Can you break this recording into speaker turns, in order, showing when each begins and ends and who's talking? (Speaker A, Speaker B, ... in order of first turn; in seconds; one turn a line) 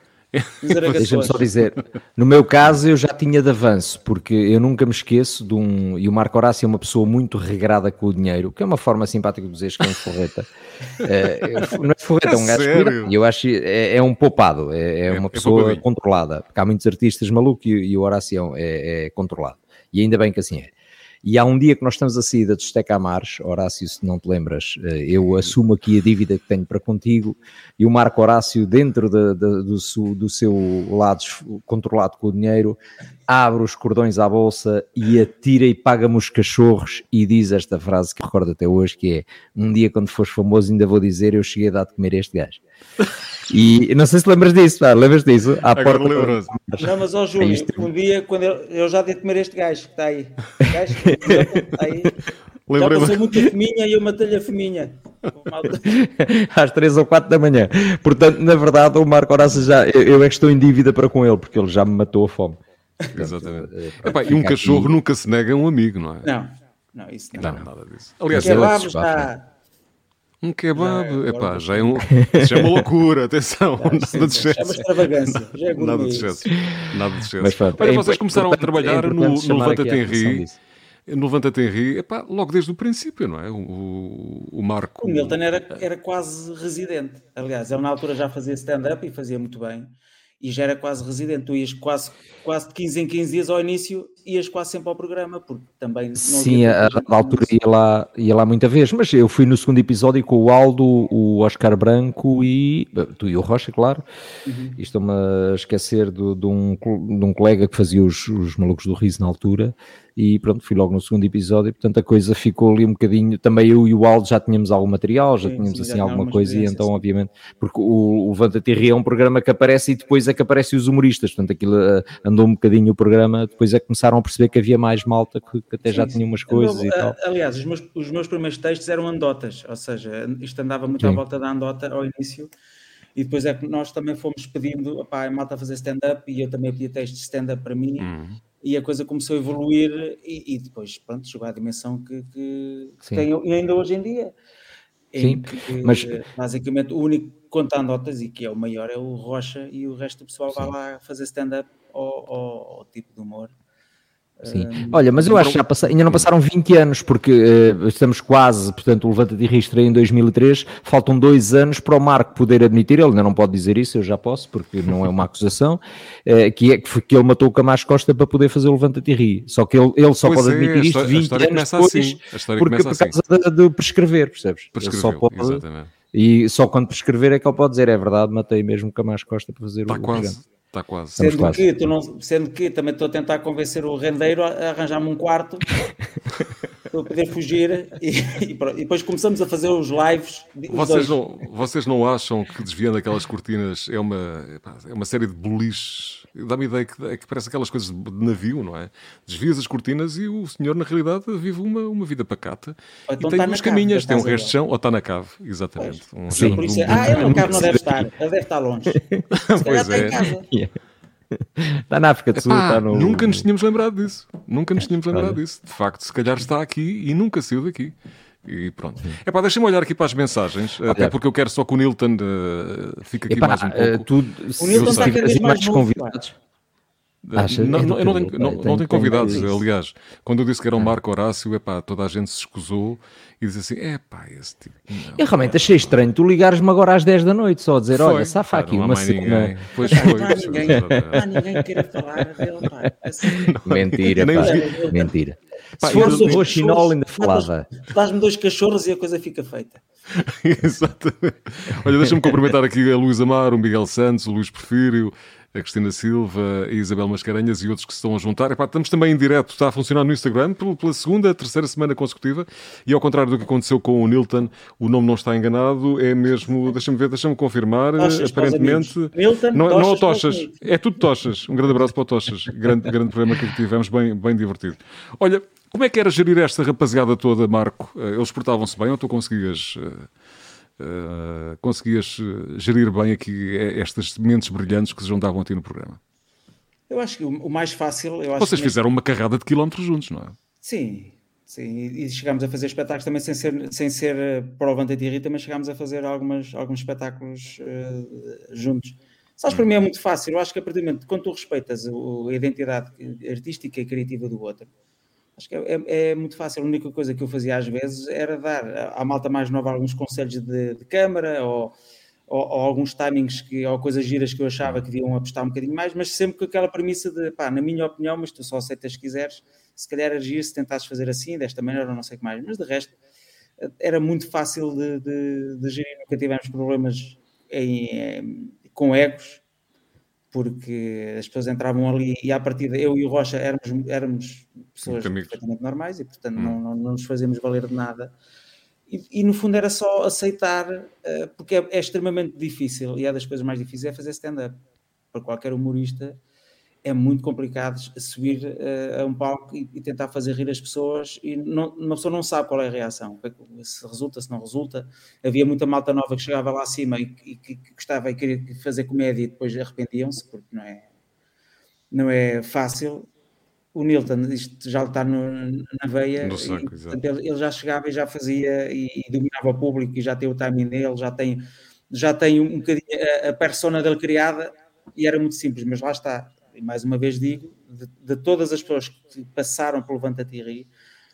Speaker A: 0.3-1.1
Speaker B: 0.6-1.4
Speaker C: 0.9-10.5
Speaker C: 11.0-20.7
Speaker A: 12.2-13.1
Speaker A: 15.1-15.8
Speaker C: 21.2-42.6
Speaker C: 43.5-47.9
Speaker A: 45.7-46.5
Speaker B: 46.8-52.2
Speaker C: 51.2-52.1
Speaker A: 52.7-53.4
Speaker B: 52.8-56.0
Speaker C: 55.8-62.6
Speaker C: 63.1-65.0
Speaker A: 63.1-66.3
Speaker B: 66.2-67.6
Speaker A: 67.4-68.9
Speaker C: 68.3-69.3
Speaker B: 68.4-69.5
Speaker A: 70.4-80.5
Speaker B: 70.8-72.1
Speaker C: 72.2-72.9
Speaker B: 73.8-76.5
Speaker C: 76.5-76.8
Speaker C: 77.4-80.6
Speaker A: 81.1-85.4
Speaker B: 85.0-97.5
Speaker C: 96.2-104.0
Speaker B: 104.5-104.8
Speaker C: 104.8-127.2
Speaker B: 115.4-117.0
Speaker B: 125.8-132.5
Speaker B: 133.2-138.1
Speaker A: 138.0-138.4
Speaker B: 138.6-144.3
Speaker B: 145.1-153.5
Speaker C: 145.2-146.2
Speaker B: 154.4-155.4
Speaker C: 154.5-180.4
Speaker A: 170.2-173.2
Speaker A: 174.8-175.9
Speaker A: 179.9-181.6
Speaker C: 181.2-181.7
Speaker B: 181.2-185.7
Speaker B: 186.9-191.2
Speaker A: 190.7-207.7
Speaker B: 203.1-204.6
Speaker B: 205.8-209.0
Speaker C: 206.3-208.0
Speaker A: 209.3-210.2
Speaker B: 209.6-210.4
Speaker C: 210.4-210.7
Speaker C: 211.3-213.4
Speaker A: 212.3-217.9
Speaker C: 215.1-215.4
Speaker A: 218.4-224.1
Speaker C: 223.3-226.4
Speaker B: 224.6-226.2
Speaker A: 224.7-225.2
Speaker A: 227.2-235.9
Speaker C: 227.4-229.6
Speaker B: 229.2-229.6
Speaker C: 235.2-241.6
Speaker A: 237.9-241.3
Speaker B: 239.8-243.5
Speaker C: 243.3-247.7
Speaker A: 243.5-244.7
Speaker B: 244.2-245.1
Speaker A: 245.8-246.5
Speaker B: 245.8-249.8
Speaker A: 250.2-280.1
Speaker B: 268.0-270.6
Speaker A: 280.8-286.0
Speaker B: 286.9-288.8
Speaker A: 288.4-290.4
Speaker B: 290.6-304.7
Speaker B: 305.4-311.8
Speaker B: 312.3-322.9
Speaker B: 323.6-329.4
Speaker B: 330.3-338.1
Speaker A: 334.9-335.4
Speaker B: 338.9-344.6
Speaker B: 345.1-346.2
Speaker B: 346.9-360.9
Speaker B: 361.9-363.1
Speaker B: 363.7-380.7
Speaker A: 366.2-367.0